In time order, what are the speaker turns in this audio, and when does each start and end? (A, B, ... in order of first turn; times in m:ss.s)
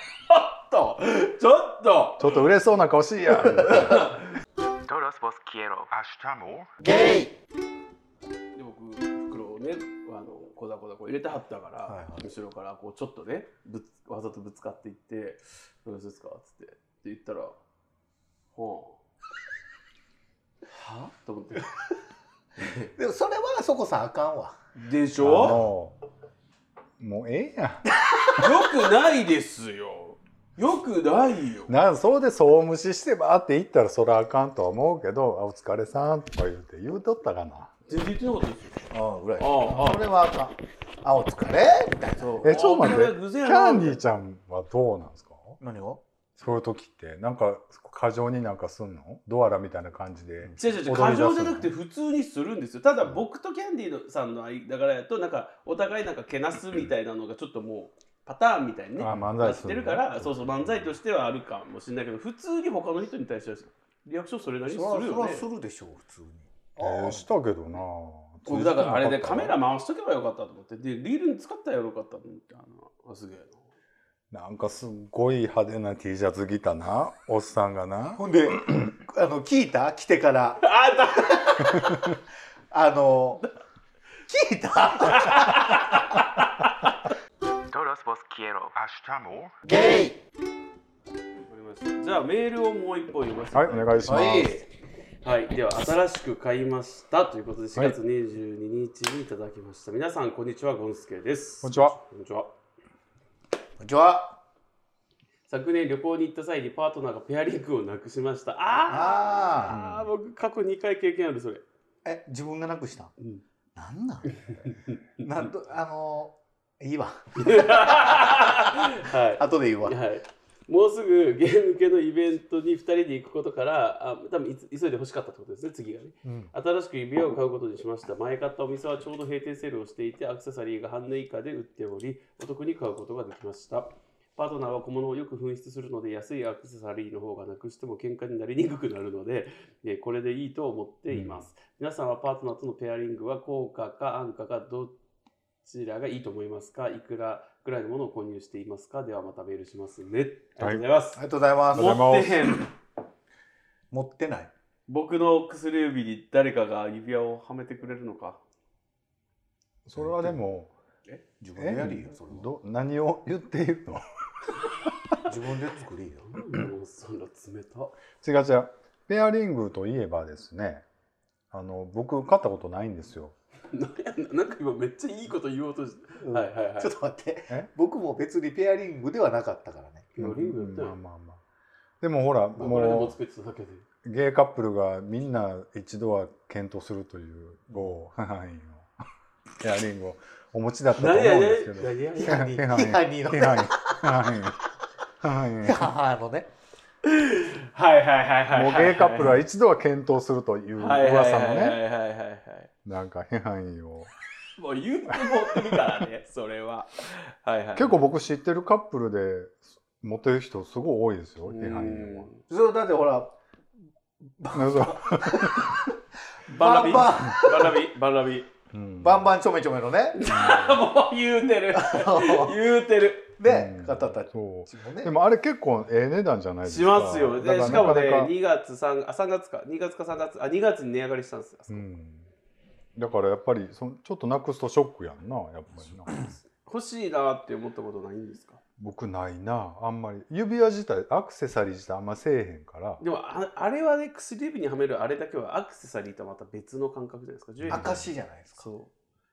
0:00.3-0:02.5 A
0:02.2-0:04.2 B
0:03.6-0:04.2 A
0:04.9-0:05.9 C
0:05.9-0:06.7 B
0:08.5-0:17.6 A
0:11.9-0:12.3 D
0:18.5-0:19.0 A
0:20.7-0:21.7 A
0:22.9-0:24.6 D
0:24.8-0:25.6 A
0:25.2-0:25.9 B
0:27.0-0:27.9 B
0:28.4-0:31.7 A
0:31.7-0:37.7 B
0:37.9-0:38.8 A
0:38.9-0:42.6 D
0:39.4-0:40.0 A
0:42.2-0:44.0 A
0:42.4-0:45.6 B
0:45.6-0:46.0 D
0:46.4-0:51.7 B
0:50.6-1:05.4 A
0:59.0-1:00.9 B
1:04.7-1:07.3 D
1:06.8-1:09.6 B
1:08.4-1:13.7 A
1:14.3-1:18.8 B
1:18.1-1:22.2 D
1:20.6-1:21.8 A
1:22.7-1:23.4 D
1:24.3-1:25.8 D
1:25.0-1:26.9 A
1:27.7-1:28.8 C
1:28.8-1:29.5 B
1:31.4-1:34.4 A
1:33.5-1:34.5 B
1:34.1-1:34.6 D
1:35.2-1:42.5 A
1:41.6-1:42.0 B
1:43.8-1:44.4 D
1:45.5-1:51.6 A
1:48.9-1:49.8 D
1:49.7-1:50.1 B
1:52.0-1:53.1 D
1:53.8-1:54.6 D
1:54.4-1:55.5 A
1:55.2-2:00.0 D
1:57.4-2:24.9 A
2:06.2-2:06.5 D
2:21.1-2:21.5 B
2:25.6-2:31.2 A
2:30.6-2:30.8 B
2:31.2-2:32.1 D
2:31.7-2:32.5 B
2:31.7-2:32.7 A
2:33.9-2:34.5 D
2:34.9-2:38.4 A
2:39.8-2:40.7 B
2:40.0-2:40.4 D
2:41.4-2:42.5 D
2:41.6-2:44.0 B
2:45.2-2:46.3 D
2:46.2-2:47.9 A
2:48.2-2:50.8 B
2:51.5-2:53.3 B
2:53.7-2:56.9 A
2:56.2-3:00.1 D
3:00.1-3:01.0 A
3:00.2-3:01.4 B
3:02.0-3:03.2 B
3:02.6-3:03.8 A
3:04.0-3:08.9 B
3:09.6-3:14.6 B
3:11.0-3:12.6 A
3:12.2-3:14.4 D
3:15.2-3:15.9 B
3:15.6-3:16.5 D
3:17.0-3:19.4 A
3:18.5-3:21.8 B
3:20.8-3:22.7 A
3:22.8-3:24.1 B
3:24.6-3:28.0 A
3:25.2-3:25.9 B
3:27.7-3:32.3 B
3:31.4-3:32.4 A
3:32.5-3:33.3 D
3:34.4-3:35.9 D
3:34.5-3:35.8 B
3:36.5-3:37.8 D
3:36.5-3:38.5 A
3:38.7-3:39.3 B
3:39.0-3:40.3 D
3:40.1-3:43.4 A
3:40.2-3:40.8 B
3:41.7-3:42.6 D
3:43.4-3:45.1 D
3:43.4-3:48.3 B
3:46.6-3:52.0 A
3:51.7-3:52.2 B
3:52.9-3:56.3 B
3:56.6-3:58.6 A
3:58.8-4:03.0 B
4:03.0-4:08.0 A
4:07.7-4:08.0 B
4:07.7-4:08.7 D
4:08.6-4:08.9 A